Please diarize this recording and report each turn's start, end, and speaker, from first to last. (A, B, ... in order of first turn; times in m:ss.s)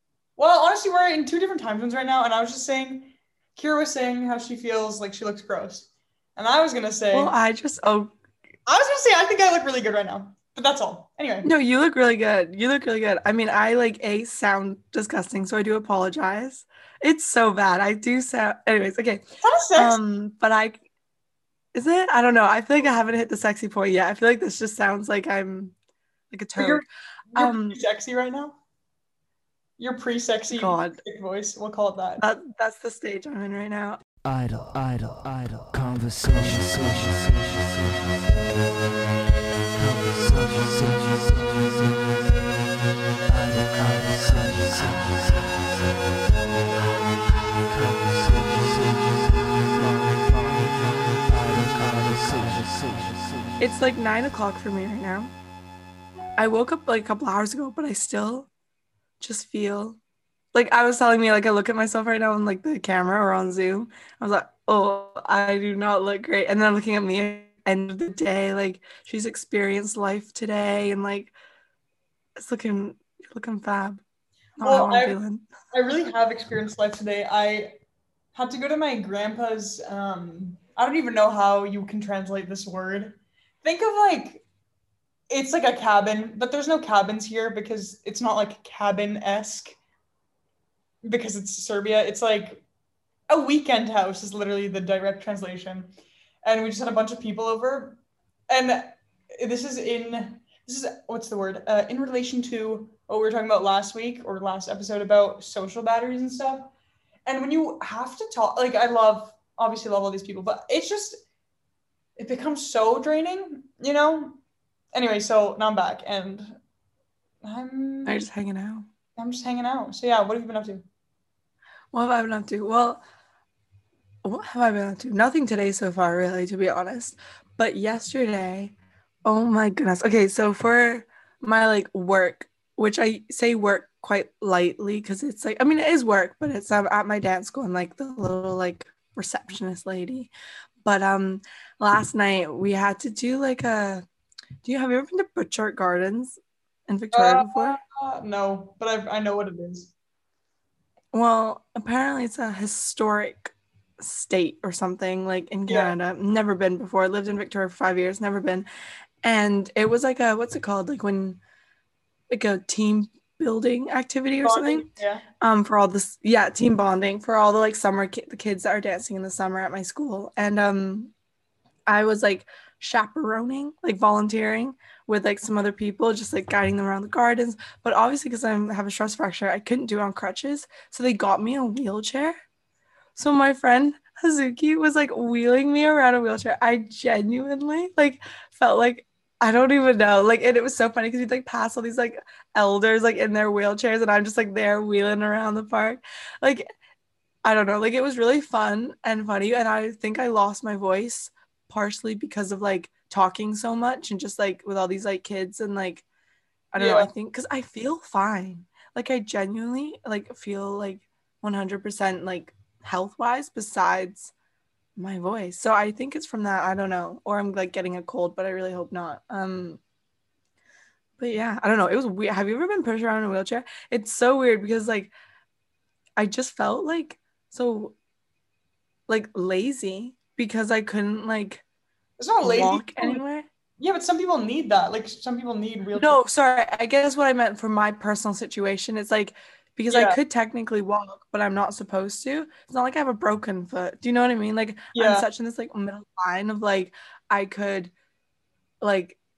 0:00.4-0:07.3 A
0:07.1-0:08.1 B
0:08.7-0:11.5 A
0:11.4-0:19.2 B
0:19.4-0:20.0 A
0:19.7-0:20.8 B
0:21.7-0:25.7 B
0:26.3-0:27.8 B
0:26.6-0:28.6 A
0:29.8-0:32.2 A
0:30.5-0:31.0 B
0:32.2-0:34.0 B
0:34.2-0:38.8 C
0:39.7-0:42.4 C
0:43.3-0:45.9 C
0:47.7-0:53.6 C
0:53.6-0:55.3 B
0:56.4-0:58.5 B
0:59.2-1:00.0 B
1:00.5-1:11.3 B
1:12.4-1:14.0 B
1:14.6-1:15.4 B
1:14.6-1:15.2 A
1:15.7-1:17.7 A
1:18.3-1:24.4 A
1:25.3-1:29.8 A
1:31.0-1:32.6 A
1:33.3-1:35.9 A
1:36.4-1:46.7 A
1:47.2-1:51.2 A
1:52.2-1:54.4 A
1:54.9-1:56.6 A
1:57.4-1:58.3 A
1:58.0-1:58.8 B
1:59.2-2:00.8 A
2:01.9-2:03.0 B
2:04.2-2:20.3 B
2:20.8-2:24.0 B
2:24.6-2:27.8 B
2:27.1-2:29.9 A
2:31.1-2:38.7 B
2:35.7-2:35.9 A
2:39.2-2:41.4 B
2:42.3-2:44.9 B
2:44.4-2:45.2 A
2:45.4-2:51.1 B
2:51.9-3:02.3 B
3:03.2-3:16.7 B
3:17.4-3:26.0 B
3:26.7-3:34.3 B
3:26.8-3:27.1 A
3:35.0-3:39.8 B
3:41.2-3:45.1 B
3:46.2-3:47.9 B
3:49.1-3:51.6 B
3:52.2-3:53.2 A
3:52.4-3:53.5 B
3:53.8-3:56.2 A
3:56.0-4:07.9 B
3:59.9-4:00.2 A
4:04.9-4:05.3 A
4:08.8-4:09.2 B